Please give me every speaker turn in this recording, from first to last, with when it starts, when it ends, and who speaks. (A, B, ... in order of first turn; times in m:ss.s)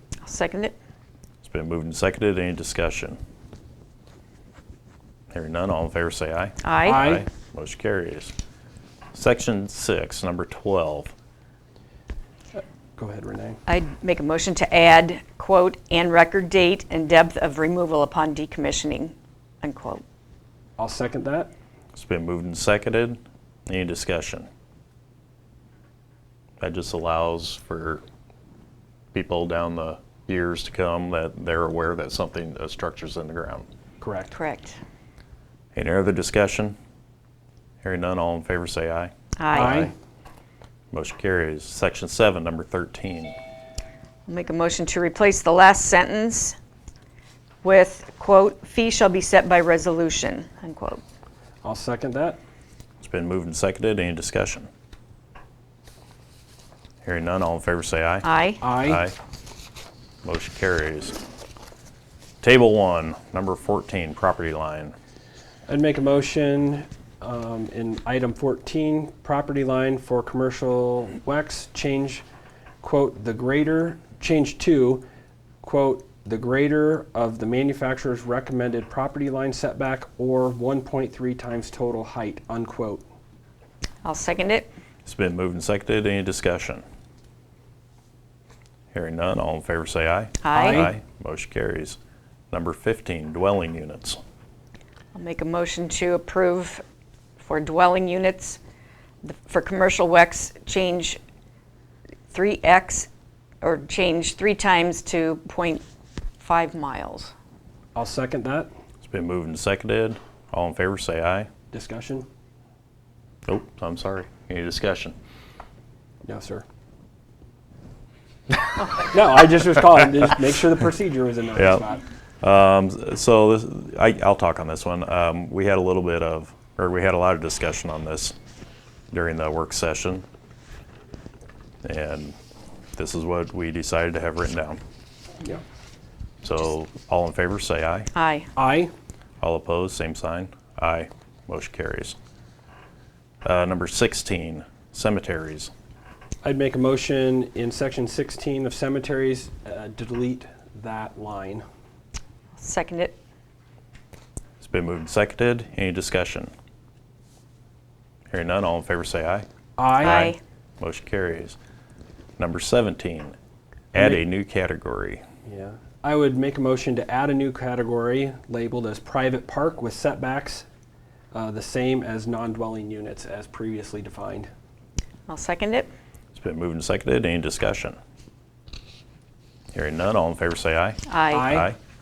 0:00.2-0:00.7 A
0:01.4-0:03.2 B
0:05.3-0:08.3 B
0:06.6-0:07.1 A
0:06.8-0:07.2 C
0:09.1-0:11.1 B
0:12.5-0:13.6 C
0:13.7-0:20.0 A
0:20.8-0:21.5 C
0:21.9-0:24.5 B
0:26.6-0:28.0 B
0:29.1-0:33.7 B
0:34.0-0:34.3 C
0:34.3-0:34.8 A
0:35.7-0:36.8 B
0:37.8-0:39.9 B
0:39.4-0:39.8 A
0:39.5-0:39.9 C
0:40.9-0:43.3 B
0:44.3-0:46.6 A
0:47.6-0:51.0 A
0:51.6-0:52.4 C
0:53.0-0:54.7 B
0:57.0-0:59.1 B
0:58.2-0:58.6 A
0:58.6-0:59.0 C
1:00.2-1:01.2 B
1:02.4-1:04.9 B
1:05.7-1:12.2 C
1:12.8-1:15.0 C
1:15.6-1:23.0 C
1:24.0-1:24.7 A
1:25.0-1:26.8 B
1:28.9-1:32.0 B
1:30.4-1:30.9 A
1:30.5-1:30.9 C
1:32.5-1:34.2 B
1:35.1-1:36.8 A
1:37.4-1:38.6 A
1:39.2-1:41.2 A
1:42.3-1:43.1 A
1:43.6-1:45.8 A
1:46.4-1:47.3 A
1:47.9-1:48.7 C
1:49.0-1:51.5 B
1:51.7-1:52.3 C
1:53.4-1:55.1 B
1:56.2-1:56.6 C
1:58.9-2:02.0 C
2:01.6-2:01.8 B
2:02.4-2:08.3 B
2:09.1-2:10.2 B
2:11.8-2:12.4 B
2:13.0-2:14.8 B
2:16.4-2:18.1 B
2:18.1-2:18.5 A
2:18.6-2:18.9 C
2:19.4-2:22.2 B
2:23.4-2:25.7 B
2:26.4-2:31.6 C
2:32.6-2:33.2 A
2:34.6-2:36.5 B
2:38.3-2:39.4 B
2:39.8-2:40.3 C
2:40.0-2:40.4 A
2:40.0-2:41.6 B
2:42.4-2:43.4 B
2:43.9-2:45.2 B
2:44.0-2:44.2 C
2:45.4-2:50.7 C
2:51.3-2:54.5 C
2:55.3-2:55.9 A
2:56.3-2:58.0 B
2:59.7-3:01.8 B
3:01.1-3:01.5 A
3:01.3-3:01.7 C